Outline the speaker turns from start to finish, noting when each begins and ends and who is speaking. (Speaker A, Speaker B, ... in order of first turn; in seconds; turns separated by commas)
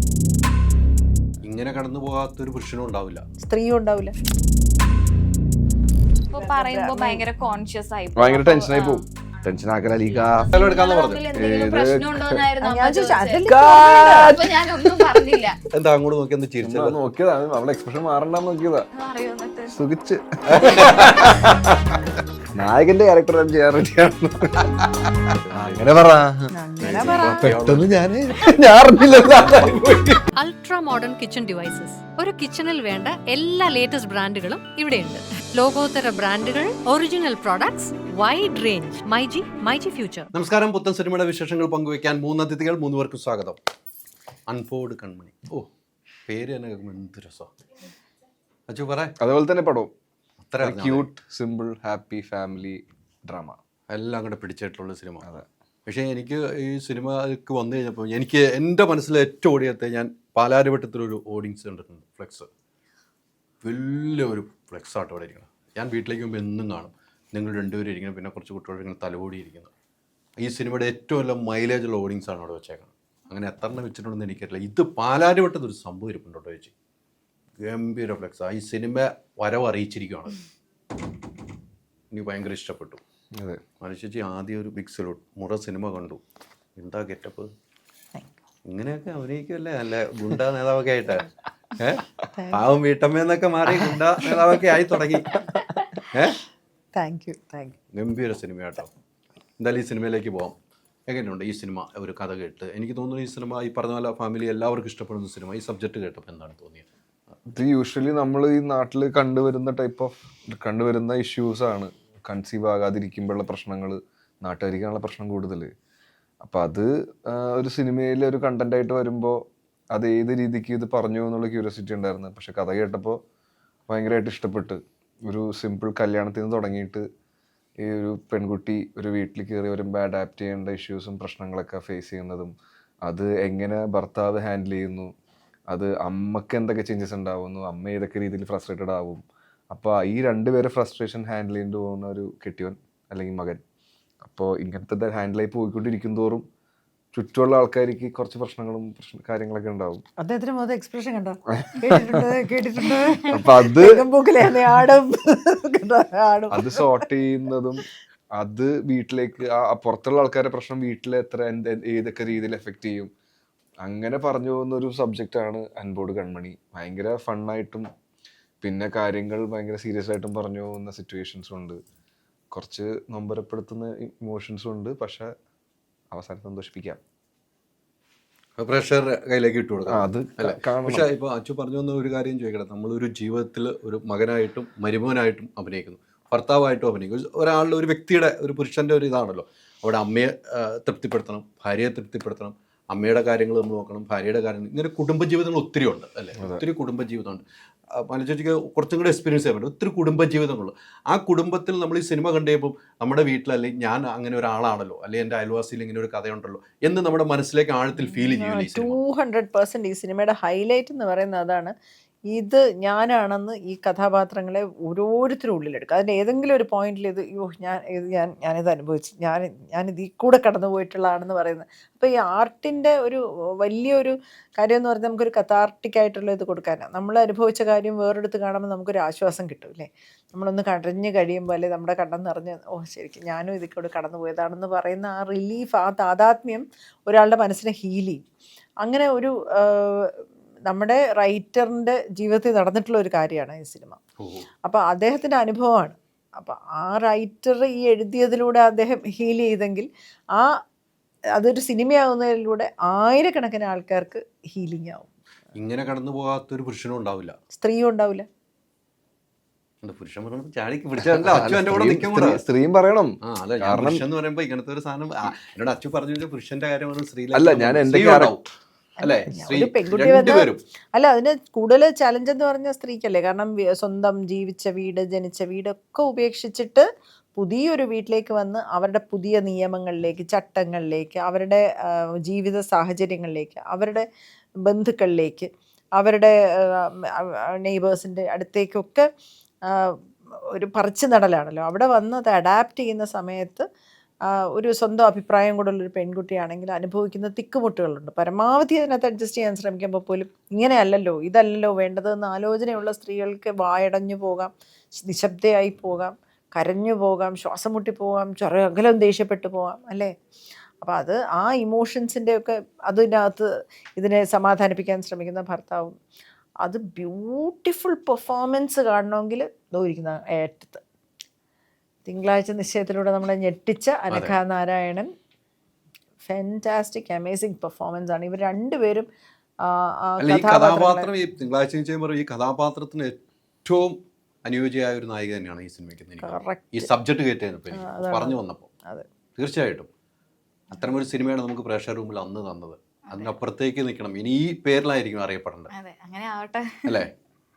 Speaker A: 1.4-3.2, Speaker B: 3.4-4.2, Speaker C: 6.3-9.1, Speaker B: 6.3-7.2, Speaker D: 8.2-10.5, Speaker A: 10.5-11.2, Speaker C: 10.5-15.6, Speaker D: 11.3-12.4, Speaker B: 12.6-14.3, Speaker D: 13.5-15.0, Speaker A: 15.7-17.0, Speaker D: 16.6-18.9, Speaker C: 18.9-19.8, Speaker D: 19.7-21.9, Speaker A: 20.5-21.4, Speaker D: 22.5-24.7, Speaker A: 25.0-25.9, Speaker D: 25.5-30.2, Speaker B: 26.5-27.5, Speaker A: 26.8-27.9, Speaker A: 29.2-30.2, Speaker E: 30.4-40.3, Speaker A: 40.3-43.6, Speaker A: 44.5-45.7, Speaker A: 46.3-47.5, Speaker A: 48.7-49.1, Speaker D: 49.2-49.9, Speaker A: 50.5-51.0, Speaker D: 50.6-53.6, Speaker A: 53.9-55.3, Speaker A: 55.9-62.5, Speaker A: 63.6-69.7, Speaker A: 70.4-76.7, Speaker A: 77.6-80.4, Speaker A: 82.1-83.0, Speaker D: 83.3-83.6, Speaker A: 83.8-86.2, Speaker A: 86.8-87.5, Speaker A: 88.7-95.6, Speaker B: 92.3-92.6, Speaker B: 94.3-94.6, Speaker B: 95.3-96.1, Speaker B: 97.0-97.8, Speaker A: 97.9-98.9, Speaker A: 99.6-100.5, Speaker A: 101.1-106.9, Speaker D: 107.5-115.7, Speaker D: 116.4-123.2, Speaker D: 123.9-127.0, Speaker D: 127.8-132.5, Speaker D: 133.1-135.1, Speaker D: 135.7-143.6, Speaker D: 144.2-146.4, Speaker D: 147.1-150.0, Speaker B: 150.2-157.1, Speaker D: 151.5-152.3, Speaker D: 153.3-154.0, Speaker D: 156.5-157.8, Speaker D: 158.4-163.1, Speaker D: 163.8-167.9, Speaker D: 168.6-171.8, Speaker D: 172.5-175.3, Speaker D: 176.1-177.0, Speaker A: 178.6-209.0, Speaker D: 179.9-181.1, Speaker B: 208.3-211.7, Speaker B: 212.3-238.2, Speaker B: 238.8-244.0, Speaker A: 244.2-244.5, Speaker B: 244.6-250.6, Speaker B: 251.3-255.1, Speaker A: 255.6-257.4, Speaker B: 257.6-258.3, Speaker A: 259.8-262.4, Speaker D: 261.0-264.0, Speaker A: 263.2-268.4, Speaker D: 267.3-268.5, Speaker B: 269.0-284.1, Speaker A: 269.0-270.6, Speaker B: 284.6-289.1, Speaker B: 289.7-290.0, Speaker B: 290.5-293.7, Speaker B: 294.3-310.1, Speaker B: 310.8-315.9, Speaker B: 316.6-320.8, Speaker B: 322.1-325.1, Speaker A: 324.1-324.4, Speaker B: 326.2-329.1, Speaker B: 329.6-331.1, Speaker A: 330.2-338.7, Speaker B: 336.2-336.9, Speaker B: 337.7-339.1, Speaker A: 339.4-339.9, Speaker A: 340.7-345.7, Speaker C: 343.1-343.4, Speaker C: 345.7-347.1, Speaker A: 346.9-347.1